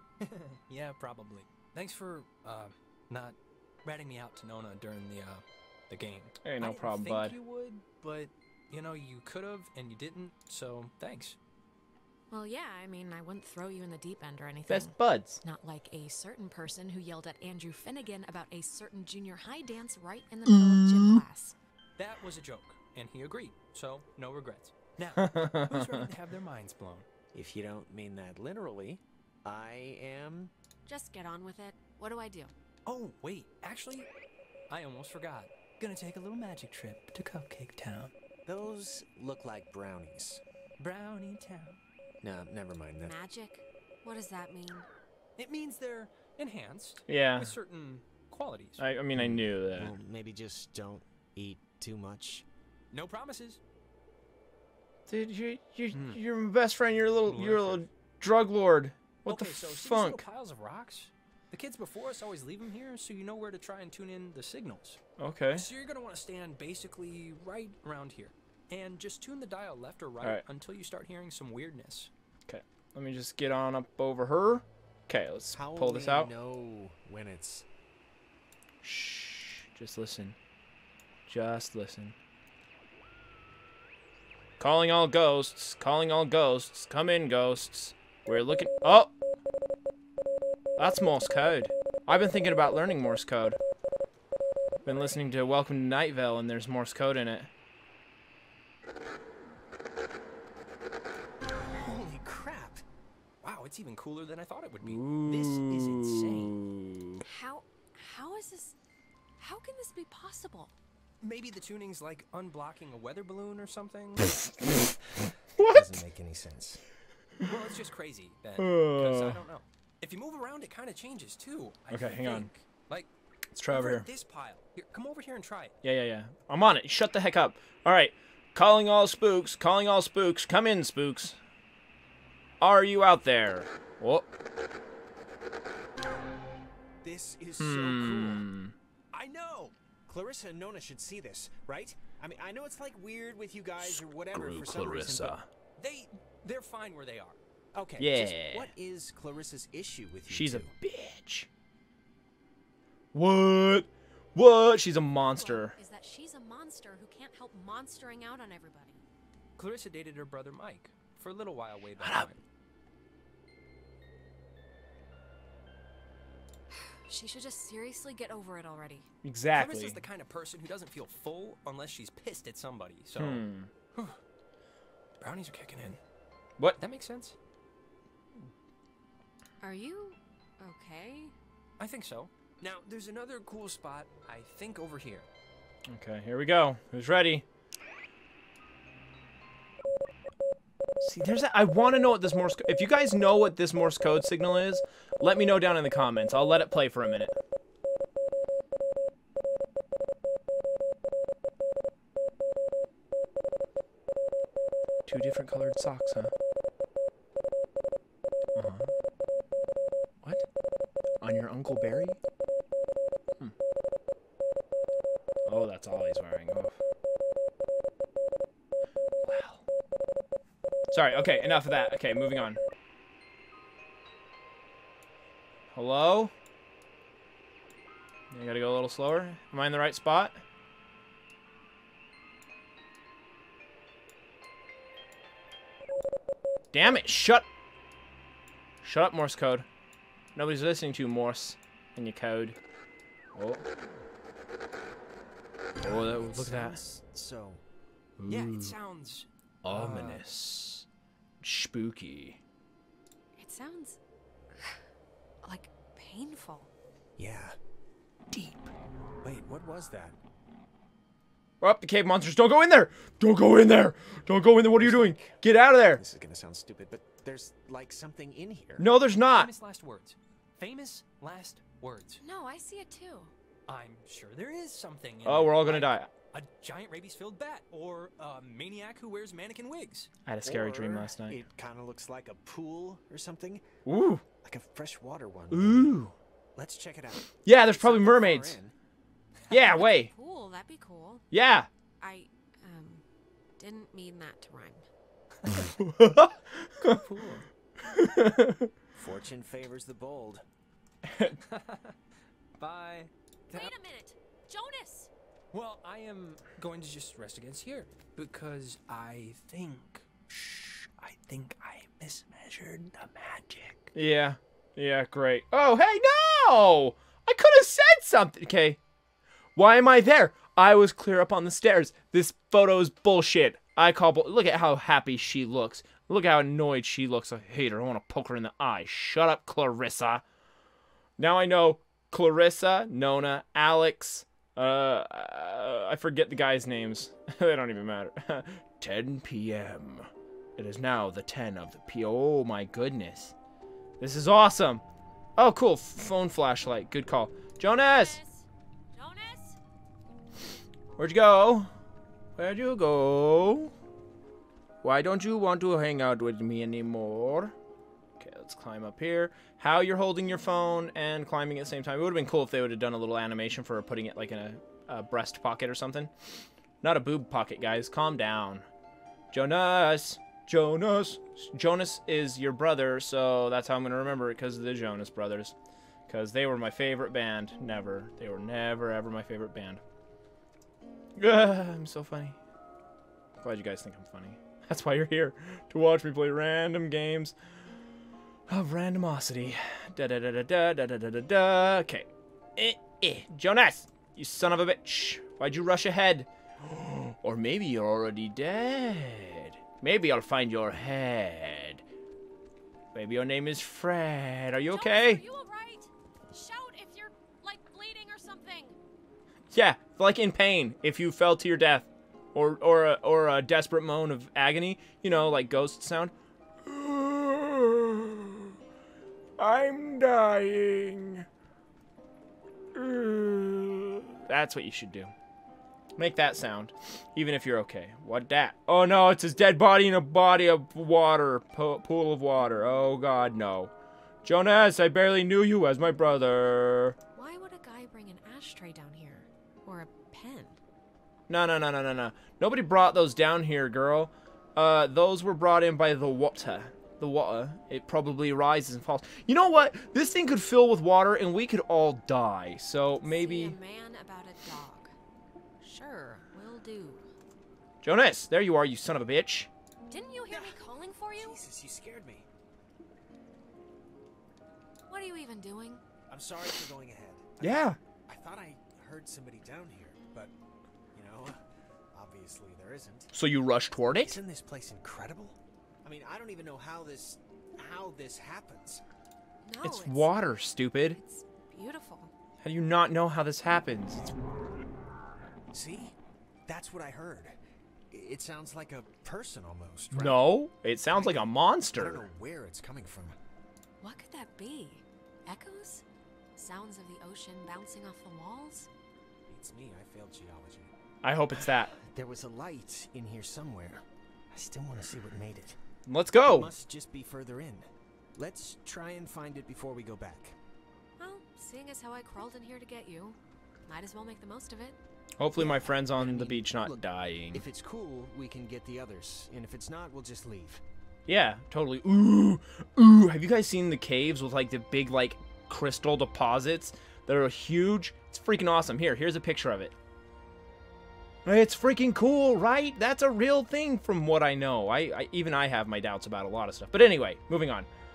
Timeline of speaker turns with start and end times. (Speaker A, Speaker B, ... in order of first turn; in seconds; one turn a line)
Speaker A: 0.2-11.4
Speaker B: 6.4-7.4
Speaker C: 12.3-21.6
Speaker B: 14.7-15.4
Speaker B: 20.5-21.2
Speaker A: 22.0-27.1
Speaker B: 25.2-26.1
Speaker D: 27.3-30.5
Speaker C: 30.8-32.5
Speaker A: 32.9-34.1
Speaker A: 34.7-38.1
Speaker D: 38.5-40.4
Speaker A: 40.8-41.8
Speaker D: 42.2-43.1
Speaker C: 43.0-44.9
Speaker A: 45.4-48.8
Speaker B: 47.1-47.5
Speaker B: 48.8-49.9
Speaker D: 49.1-52.5
Speaker A: 52.9-53.6
Speaker B: 55.1-60.2
Speaker A: 55.9-56.2
Speaker A: 57.2-57.9
Speaker A: 59.2-65.0
Speaker B: 65.2-65.7
Speaker A: 65.5-72.1
Speaker B: 72.5-76.3
Speaker D: 75.5-77.6
Speaker B: 78.8-80.4
Speaker B: 81.3-82.1
Speaker B: 84.6-89.1
Speaker B: 90.8-93.6
Speaker B: 94.8-97.5
Speaker D: 101.8-102.8
Speaker A: 103.4-106.6
Speaker B: 104.8-107.2
Speaker C: 107.2-108.8
Speaker C: 109.4-110.7
Speaker A: 111.2-114.5
Speaker B: 115.5-116.0
Speaker D: 115.6-116.8
Speaker A: 117.4-123.1
Speaker B: 118.6-119.4
Speaker B: 121.9-122.5
Speaker B: 123.5-124.1
Speaker A: 123.7-125.7
Speaker B: 125.8-131.4
Speaker B: 132.6-134.3
Speaker D: 137.0-138.4
Speaker B: 137.6-138.7
Speaker A: 139.1-139.7
Speaker D: 140.1-145.3
Speaker B: 143.8-145.5
Speaker A: 145.8-147.4
Speaker D: 147.7-150.7
Speaker B: 148.0-148.7
Speaker B: 150.3-151.5
Speaker B: 153.1-155.7
Speaker C: 155.3-159.0
Speaker A: 159.6-162.4
Speaker B: 162.0-162.3
Speaker C: 166.7-169.1
Speaker B: 169.2-170.0
Speaker A: 169.5-174.2
Speaker B: 173.2-173.7
Speaker A: 175.2-176.0
Speaker A: 176.8-177.3
Speaker C: 179.6-181.3
Speaker A: 181.8-185.2
Speaker B: 185.9-187.4
Speaker B: 191.0-197.3
Speaker B: 205.1-206.3
Speaker B: 208.6-208.9
Speaker B: 211.2-212.2
Speaker B: 215.4-216.7
Speaker B: 219.2-219.6
Speaker B: 220.9-222.6
Speaker B: 225.7-226.3
Speaker B: 228.3-230.4
Speaker B: 236.7-237.5
Speaker B: 238.8-239.7
Speaker B: 240.3-242.6
Speaker B: 243.3-243.6
Speaker D: 245.8-247.6
Speaker B: 245.8-246.8
Speaker B: 248.2-248.7
Speaker A: 248.2-249.3
Speaker B: 249.6-250.8
Speaker D: 249.7-250.2
Speaker B: 251.4-252.4
Speaker C: 253.4-254.0
Speaker C: 255.4-256.7
Speaker D: 257.2-257.5
Speaker D: 259.2-260.2
Speaker B: 261.6-266.0
Speaker D: 264.8-265.3
Speaker D: 265.9-268.9
Speaker B: 268.8-269.5
Speaker A: 269.2-272.2
Speaker C: 272.2-273.3
Speaker A: 273.7-280.1
Speaker B: 275.2-276.1
Speaker B: 280.2-281.4
Speaker D: 280.4-283.6
Speaker B: 283.8-284.2
Speaker D: 284.4-288.7
Speaker B: 285.5-286.1
Speaker B: 287.4-288.6
Speaker B: 289.5-290.1
Speaker C: 289.6-291.2
Speaker B: 291.3-291.7
Speaker C: 292.0-293.0
Speaker C: 293.6-294.9
Speaker B: 295.5-297.0
Speaker A: 296.8-297.5
Speaker B: 297.9-298.7
Speaker D: 298.9-300.4
Speaker B: 301.1-301.3
Speaker A: 301.2-301.9
Speaker A: 302.6-303.7
Speaker C: 303.5-305.1
Speaker A: 305.5-313.9
Speaker B: 313.9-318.8
Speaker B: 319.6-330.2
Speaker B: 331.2-343.3
Speaker B: 344.0-344.8
Speaker B: 345.4-348.2
Speaker C: 347.7-349.6
Speaker B: 351.0-351.7
Speaker B: 352.4-353.7
Speaker B: 354.8-357.5
Speaker B: 358.2-366.1
Speaker B: 366.8-368.6
Speaker B: 369.3-375.5
Speaker B: 376.1-379.8
Speaker B: 381.2-382.4
Speaker B: 383.4-387.3
Speaker B: 388.5-401.8
Speaker B: 402.9-405.2
Speaker C: 404.7-408.8
Speaker B: 409.5-416.1
Speaker B: 416.6-418.6
Speaker B: 419.4-421.2
Speaker B: 422.7-425.1
Speaker B: 426.0-433.7
Speaker B: 434.2-436.9
Speaker C: 437.1-440.6
Speaker B: 441.3-453.6
Speaker C: 453.0-454.9
Speaker C: 455.6-457.1
Speaker B: 457.8-459.5
Speaker C: 459.9-461.4
Speaker D: 460.3-460.6
Speaker D: 461.1-462.2
Speaker C: 464.9-465.8
Speaker D: 466.1-470.3
Speaker B: 467.4-467.8
Speaker D: 470.9-471.4
Speaker D: 471.9-473.1
Speaker B: 473.1-474.2
Speaker D: 473.8-478.8
Speaker C: 479.4-480.4
Speaker B: 479.6-481.0
Speaker C: 480.9-482.1
Speaker B: 482.4-484.1
Speaker D: 485.5-485.9
Speaker D: 486.5-487.4
Speaker D: 487.9-490.3
Speaker B: 489.9-492.1
Speaker D: 490.9-493.1
Speaker C: 493.8-495.8
Speaker C: 496.4-498.7
Speaker D: 499.3-500.7
Speaker B: 501.0-501.7
Speaker D: 501.3-505.6
Speaker B: 505.9-506.5
Speaker D: 506.2-510.4
Speaker C: 511.0-514.8
Speaker B: 515.2-517.5
Speaker D: 515.4-520.6
Speaker B: 521.1-529.7
Speaker B: 531.2-537.7